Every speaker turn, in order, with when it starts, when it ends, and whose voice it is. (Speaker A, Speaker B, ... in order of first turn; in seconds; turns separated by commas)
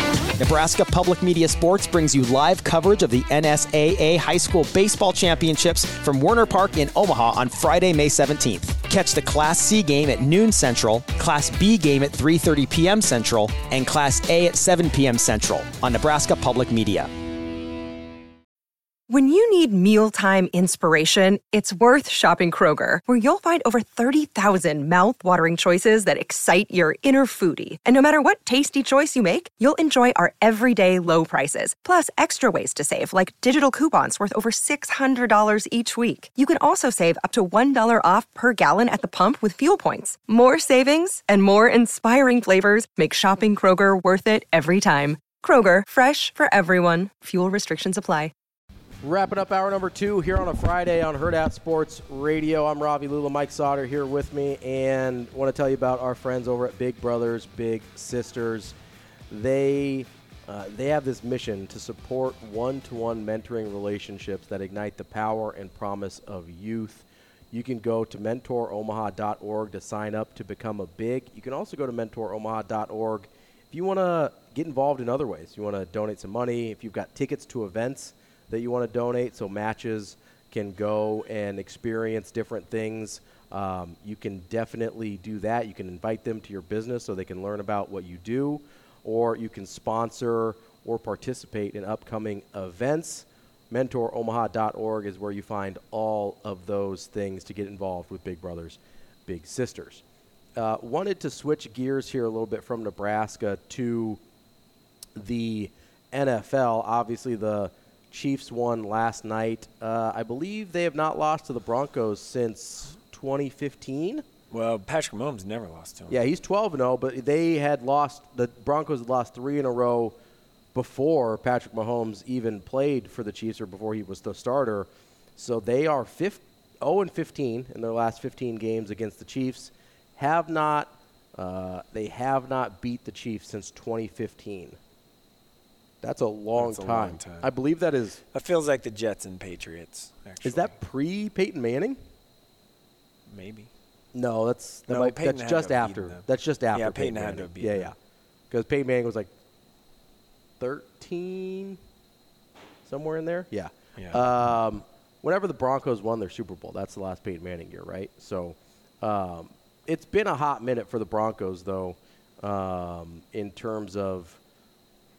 Speaker A: 0.4-17.1, Speaker B: 19.1-48.3, Speaker C: 49.0-58.8, Speaker C: 59.3-100.0, Speaker C: 100.5-104.2, Speaker C: 105.1-114.2, Speaker D: 114.5-116.2, Speaker C: 116.1-120.2, Speaker C: 120.7-134.8, Speaker C: 136.0-138.2, Speaker D: 136.5-137.5, Speaker D: 138.3-140.7, Speaker C: 140.4-142.0, Speaker D: 143.3-143.7, Speaker C: 144.1-147.9, Speaker D: 144.9-147.9, Speaker C: 148.5-149.3, Speaker C: 150.6-151.8, Speaker C: 152.8-164.4, Speaker D: 153.9-154.2